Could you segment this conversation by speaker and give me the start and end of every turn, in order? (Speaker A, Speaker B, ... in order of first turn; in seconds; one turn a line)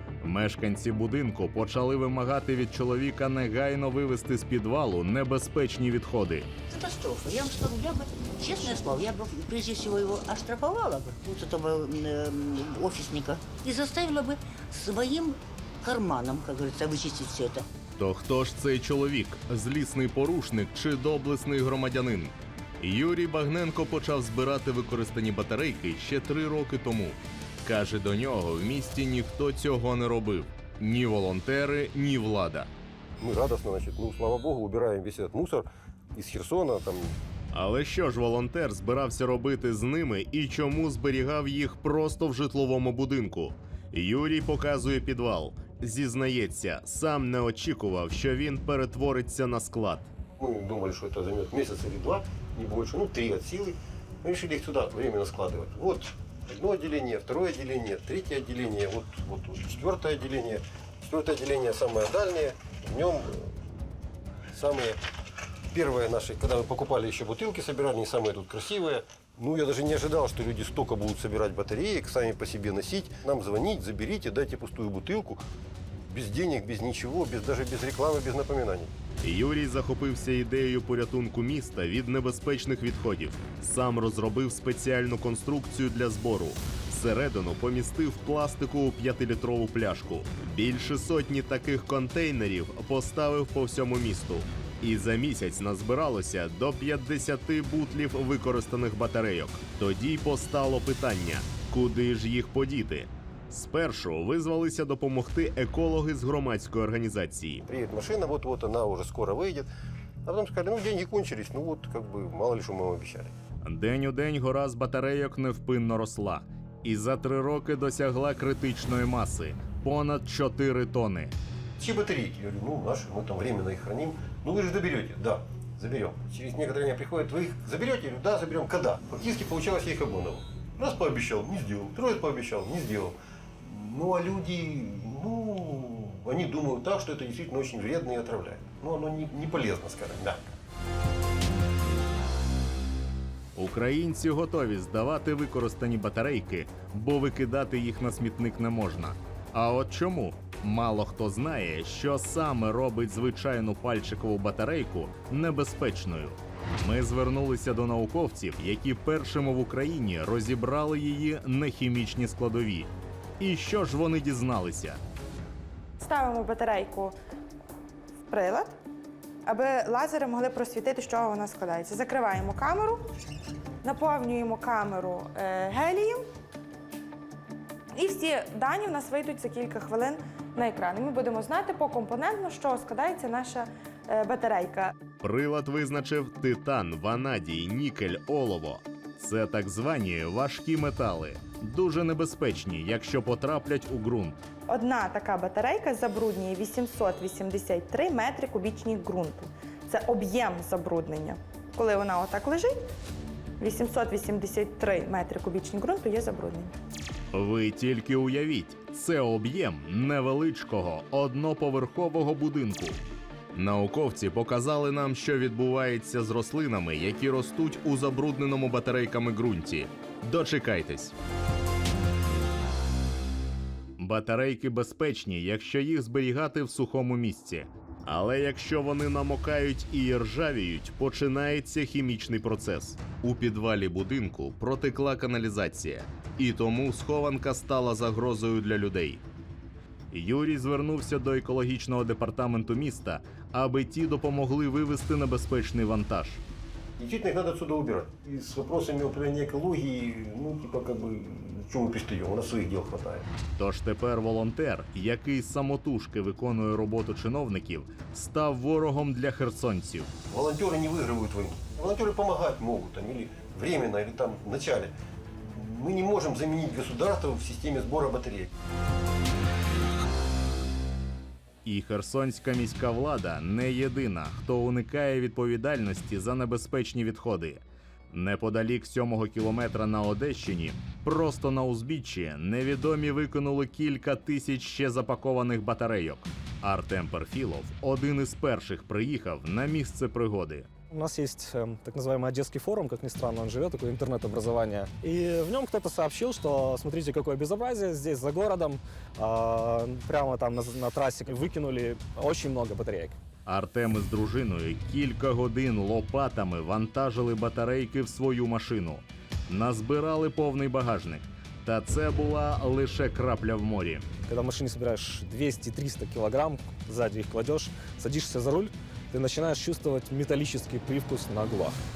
Speaker A: 0.2-6.5
Speaker B: 6.7-17.7
Speaker A: 18.0-32.7
Speaker C: 33.2-37.2
Speaker A: 37.5-50.1
Speaker C: 50.4-63.6
Speaker C: 64.5-65.0
Speaker C: 65.7-75.4
Speaker C: 76.1-78.9
Speaker A: 79.2-107.7
Speaker C: 107.7-109.7
Speaker C: 110.2-113.3
Speaker A: 113.6-121.3
Speaker C: 121.8-140.4
Speaker A: 143.6-165.0
Speaker D: 166.0-167.2
Speaker D: 168.3-168.8
Speaker D: 169.4-173.1
Speaker D: 173.8-176.2
Speaker D: 177.9-184.9
Speaker A: 185.2-194.4
Speaker D: 194.7-202.8
Speaker D: 203.6-206.7
Speaker A: 207.3-213.0
Speaker A: 213.5-221.2
Speaker A: 224.0-239.2
Speaker A: 240.1-246.4
Speaker C: 247.0-253.3
Speaker A: 253.6-260.1
Speaker C: 260.3-264.9
Speaker C: 265.5-268.5
Speaker A: 271.6-277.6
Speaker A: 278.1-290.7
Speaker E: 290.9-303.2
Speaker A: 303.5-314.1
Speaker E: 314.3-321.8